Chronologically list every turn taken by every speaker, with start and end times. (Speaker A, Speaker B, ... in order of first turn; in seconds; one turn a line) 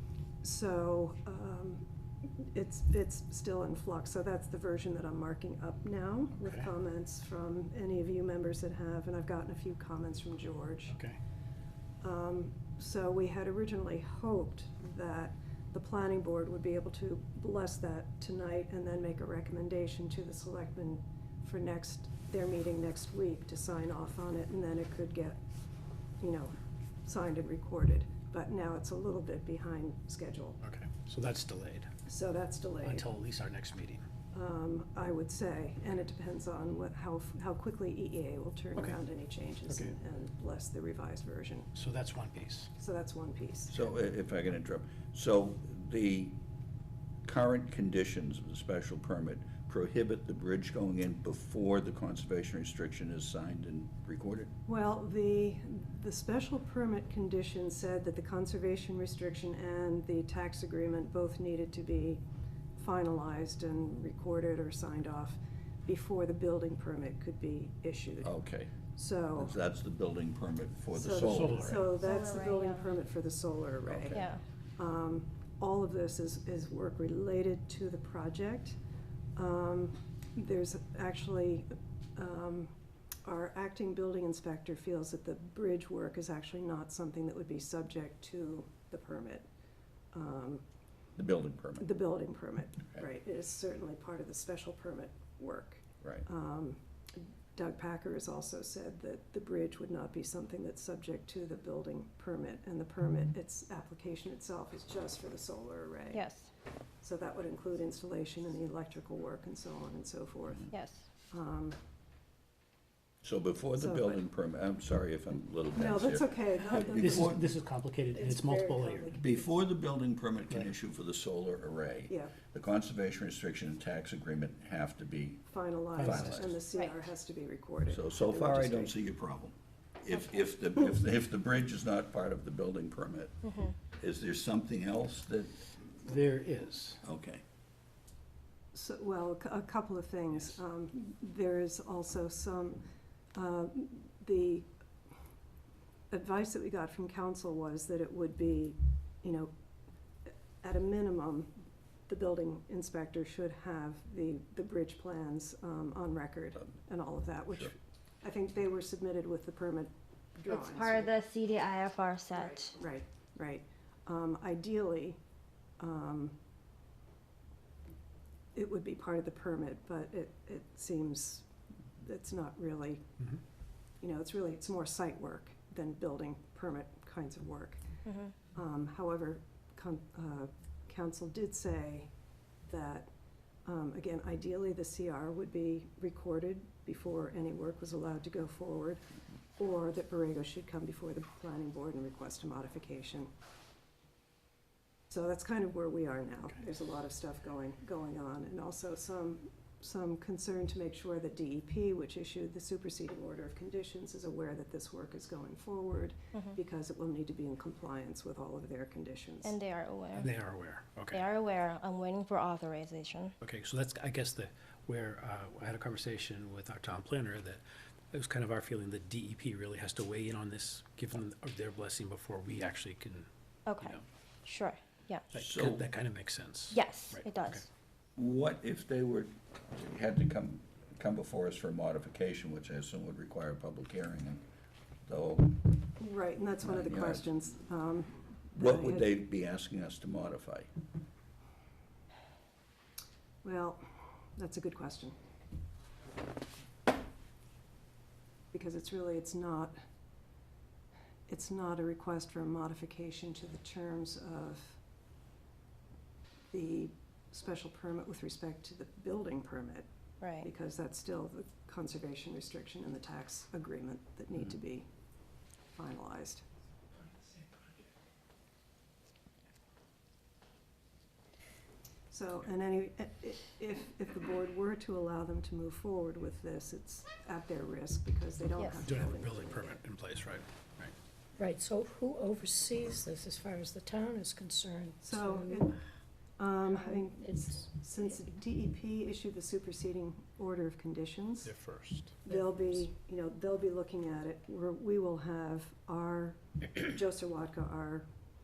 Speaker A: 0.4-1.9
Speaker A: 2.4-11.0
Speaker B: 6.4-6.7
Speaker B: 10.9-11.2
Speaker A: 12.0-25.4
Speaker A: 26.2-30.6
Speaker B: 30.6-31.9
Speaker A: 32.1-33.1
Speaker B: 32.8-34.0
Speaker A: 34.3-41.7
Speaker B: 39.7-40.0
Speaker B: 41.8-42.7
Speaker A: 42.8-43.8
Speaker C: 43.7-46.4
Speaker C: 47.2-54.5
Speaker A: 54.7-62.2
Speaker A: 62.8-68.3
Speaker C: 68.2-68.7
Speaker A: 68.9-69.5
Speaker C: 69.4-71.8
Speaker A: 70.9-74.2
Speaker B: 71.2-71.9
Speaker D: 72.0-72.9
Speaker C: 73.9-74.3
Speaker D: 74.1-74.4
Speaker A: 74.8-78.8
Speaker A: 79.4-89.5
Speaker A: 90.1-90.7
Speaker C: 91.2-91.9
Speaker A: 91.8-106.3
Speaker D: 106.1-106.5
Speaker A: 107.0-110.7
Speaker D: 110.7-111.1
Speaker A: 111.3-111.8
Speaker C: 113.2-117.4
Speaker A: 113.8-114.2
Speaker A: 115.8-117.4
Speaker B: 117.0-119.2
Speaker A: 118.1-119.2
Speaker C: 119.1-126.6
Speaker A: 122.1-122.3
Speaker A: 125.5-129.0
Speaker B: 126.0-126.3
Speaker C: 127.9-135.7
Speaker D: 133.4-133.7
Speaker B: 136.1-137.0
Speaker C: 137.0-137.4
Speaker A: 138.7-144.7
Speaker A: 146.1-149.5
Speaker A: 150.6-151.5
Speaker A: 152.1-161.1
Speaker D: 160.5-162.7
Speaker A: 162.3-165.2
Speaker A: 165.8-166.4
Speaker A: 168.5-171.5
Speaker A: 172.0-173.1
Speaker A: 174.0-177.9
Speaker D: 178.1-178.3
Speaker A: 178.5-182.1
Speaker A: 182.7-183.1
Speaker A: 183.6-189.0
Speaker A: 189.6-193.3
Speaker A: 195.1-209.6
Speaker D: 209.4-210.3
Speaker B: 210.1-211.2
Speaker D: 211.1-213.3
Speaker B: 213.4-224.0
Speaker D: 223.7-225.2
Speaker B: 225.3-227.7
Speaker C: 225.3-225.8
Speaker D: 226.7-227.7
Speaker C: 228.2-234.4
Speaker C: 235.1-235.6
Speaker A: 236.0-239.1
Speaker C: 236.6-237.2
Speaker C: 238.5-240.7
Speaker A: 243.4-245.2
Speaker A: 248.5-249.8
Speaker A: 251.3-254.8
Speaker A: 256.5-259.9
Speaker D: 260.2-260.5
Speaker A: 260.4-264.9
Speaker A: 265.7-266.4
Speaker A: 272.1-279.8
Speaker D: 278.6-278.8
Speaker B: 278.8-280.9
Speaker E: 281.4-285.5
Speaker A: 285.0-285.8
Speaker A: 286.4-291.5
Speaker E: 286.9-287.5
Speaker B: 291.4-292.2
Speaker A: 292.2-298.1